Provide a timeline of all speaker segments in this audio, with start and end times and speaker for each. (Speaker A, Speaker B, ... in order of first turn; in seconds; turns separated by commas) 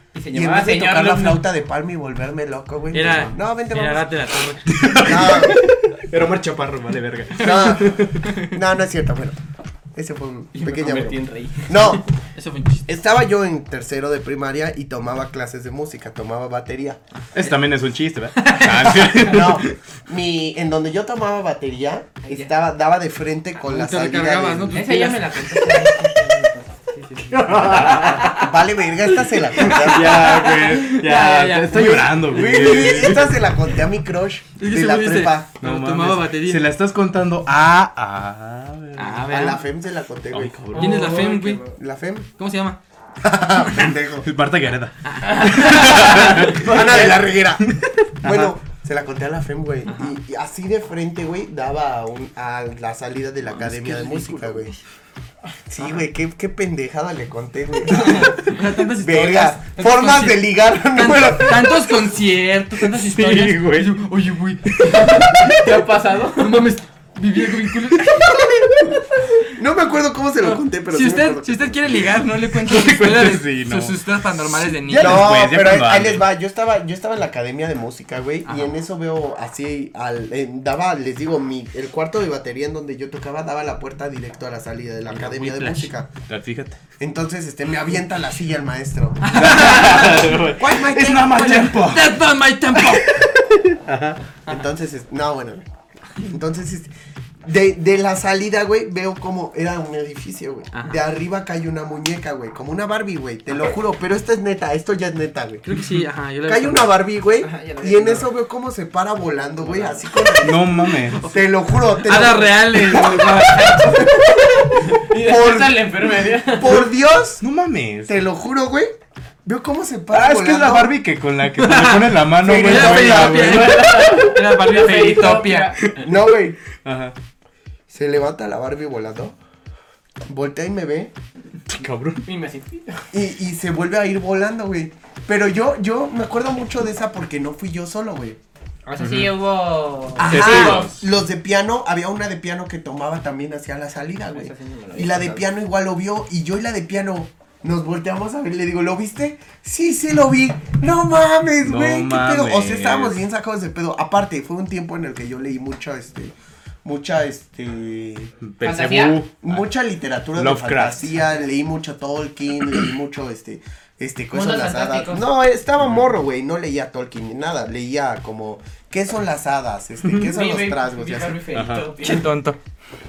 Speaker A: 0.1-1.4, Speaker B: 0.3-4.1, Speaker C: 2.9-5.3, Speaker D: 3.0-3.4, Speaker D: 4.7-8.4, Speaker B: 5.0-5.7, Speaker B: 7.4-9.3, Speaker B: 9.9-12.0, Speaker C: 10.5-12.9, Speaker B: 12.9-17.0, Speaker D: 17.3-19.7, Speaker C: 18.4-19.1, Speaker B: 19.2-24.8, Speaker A: 22.2-22.5, Speaker C: 23.6-25.8, Speaker A: 24.7-26.9, Speaker C: 26.9-28.4, Speaker D: 27.3-28.4, Speaker B: 27.8-30.4, Speaker C: 29.6-33.1, Speaker D: 29.6-33.4, Speaker B: 31.7-35.5, Speaker C: 34.6-36.7, Speaker D: 35.6-39.4, Speaker C: 39.0-39.6, Speaker B: 39.2-40.6, Speaker D: 40.3-41.2, Speaker C: 40.7-41.6, Speaker A: 40.7-41.8, Speaker B: 41.7-42.3, Speaker C: 42.4-42.8, Speaker B: 43.2-44.3, Speaker D: 43.8-46.9, Speaker C: 45.0-47.1, Speaker B: 45.9-54.7, Speaker D: 47.6-48.5, Speaker C: 49.9-50.2, Speaker D: 53.6-54.5, Speaker C: 54.3-54.6, Speaker B: 55.7-62.1, Speaker C: 57.9-68.5, Speaker D: 62.9-64.0, Speaker D: 64.7-65.8, Speaker A: 65.5-66.7, Speaker B: 68.2-68.7, Speaker B: 69.4-72.2, Speaker C: 70.4-75.4, Speaker D: 72.5-74.0, Speaker D: 74.8-76.2, Speaker B: 74.9-86.1, Speaker C: 78.4-78.7, Speaker C: 85.1-85.9, Speaker D: 86.3-86.8, Speaker B: 87.0-91.5, Speaker C: 89.2-90.4, Speaker D: 89.3-92.2, Speaker C: 91.3-93.1, Speaker D: 92.7-94.2, Speaker B: 94.5-95.7, Speaker B: 96.2-96.9, Speaker B: 97.4-105.6, Speaker C: 100.7-101.0, Speaker C: 105.6-107.0, Speaker B: 106.4-110.7, Speaker A: 107.4-108.3, Speaker A: 109.6-110.0, Speaker D: 110.4-111.3, Speaker C: 110.9-114.1, Speaker B: 111.2-117.4, Speaker A: 114.8-116.9, Speaker D: 117.4-118.2, Speaker B: 118.1-120.9, Speaker D: 120.1-124.0, Speaker C: 121.5-125.8, Speaker B: 122.4-123.8, Speaker A: 123.1-125.8, Speaker D: 125.8-126.1, Speaker B: 126.0-126.6, Speaker D: 126.8-127.1, Speaker B: 127.9-129.3, Speaker B: 130.3-131.1, Speaker D: 131.7-132.2, Speaker A: 132.2-133.0, Speaker B: 133.1-138.4, Speaker A: 138.8-140.9, Speaker D: 139.0-139.4, Speaker B: 140.2-158.4, Speaker D: 140.2-140.9, Speaker A: 144.3-145.5, Speaker D: 151.6-153.2, Speaker D: 158.4-159.6, Speaker A: 158.6-159.2, Speaker B: 159.4-171.4, Speaker D: 160.3-161.1, Speaker A: 164.3-165.2, Speaker D: 165.8-166.1, Speaker D: 170.0-170.4, Speaker A: 170.2-172.3, Speaker D: 171.5-172.0, Speaker C: 172.0-172.6